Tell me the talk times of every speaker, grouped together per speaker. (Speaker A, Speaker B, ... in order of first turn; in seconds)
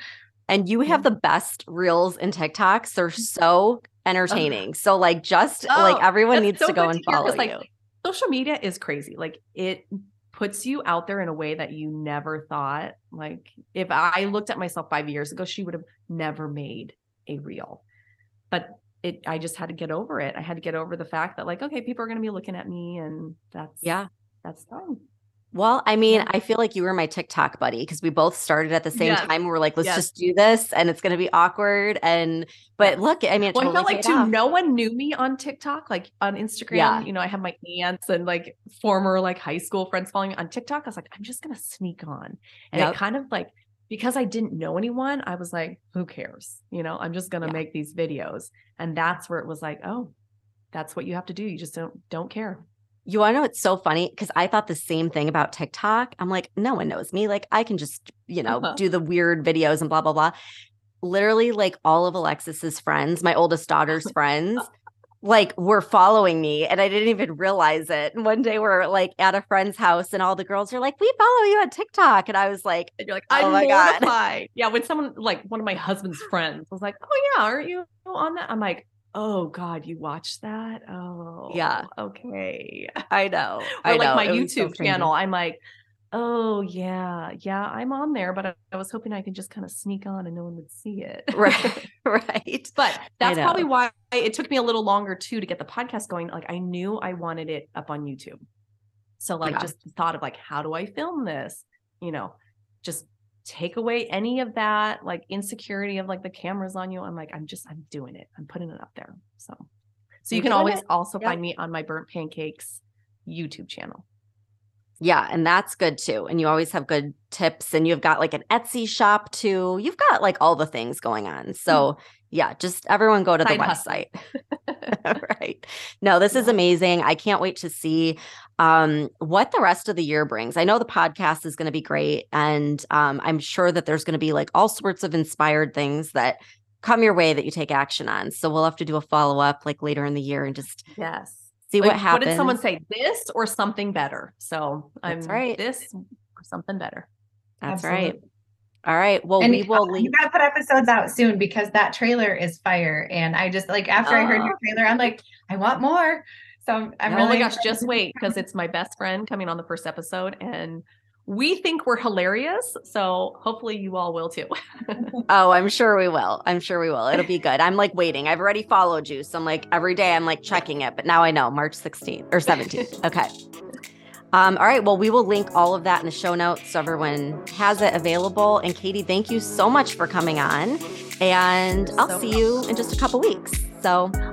Speaker A: 0.5-7.6, 25.5-34.3, 36.7-37.1, 53.0-60.3, 61.0-64.7, 65.2-74.1, 81.5-81.9, 83.1-85.1, 91.3-93.6, 99.4-99.7, 110.3-111.4, 115.0-124.1, 124.9-140.9, 141.7-142.6, 145.1-145.6, 147.6-148.2, 148.8-150.1, 157.1-157.4, 165.3-173.3, 174.3-184.2
Speaker B: 5.7-17.8, 18.5-25.0, 28.9-30.1, 33.5-50.1, 50.7-52.6, 58.5-58.8, 73.0-83.0, 83.8-85.6, 86.1-91.8, 92.8-98.4, 99.2-109.7, 110.2-114.0, 123.4-125.2, 126.3-126.6, 140.9-147.1, 154.0-154.5, 157.1-165.2, 172.5-172.9, 181.8-182.6
Speaker C: 147.7-148.2, 149.4-158.3